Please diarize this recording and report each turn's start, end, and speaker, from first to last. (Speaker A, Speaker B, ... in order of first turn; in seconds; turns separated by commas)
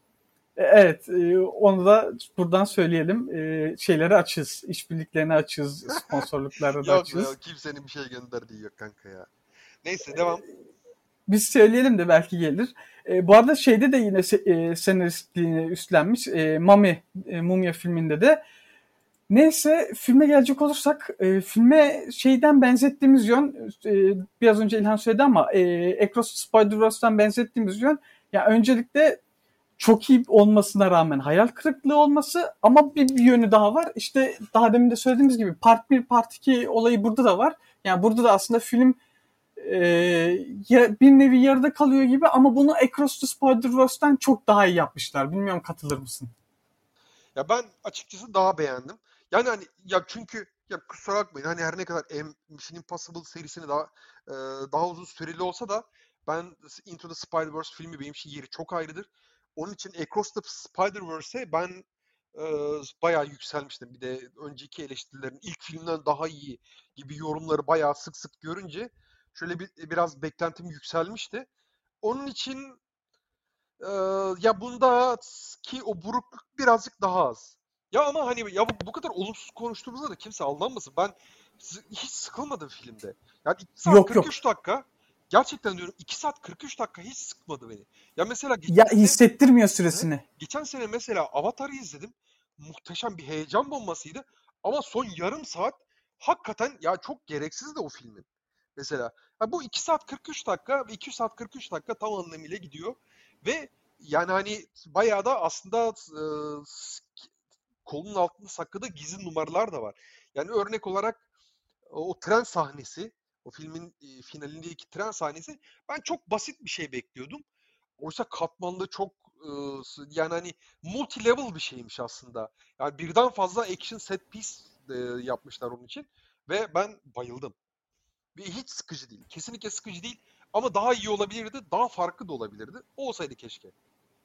Speaker A: 0.6-7.3, Speaker B: 5.9-6.3, Speaker B: 6.8-9.3, Speaker B: 9.8-10.4, Speaker A: 11.3-18.4, Speaker A: 19.3-29.2, Speaker A: 29.8-39.0, Speaker A: 39.6-46.3, Speaker B: 47.4-71.5, Speaker B: 72.0-72.8, Speaker B: 73.8-89.2, Speaker A: 83.8-84.3, Speaker A: 88.7-90.2, Speaker B: 89.9-98.2, Speaker B: 98.8-107.3, Speaker B: 107.8-111.2, Speaker B: 111.9-117.4, Speaker B: 118.0-127.5, Speaker B: 128.3-133.7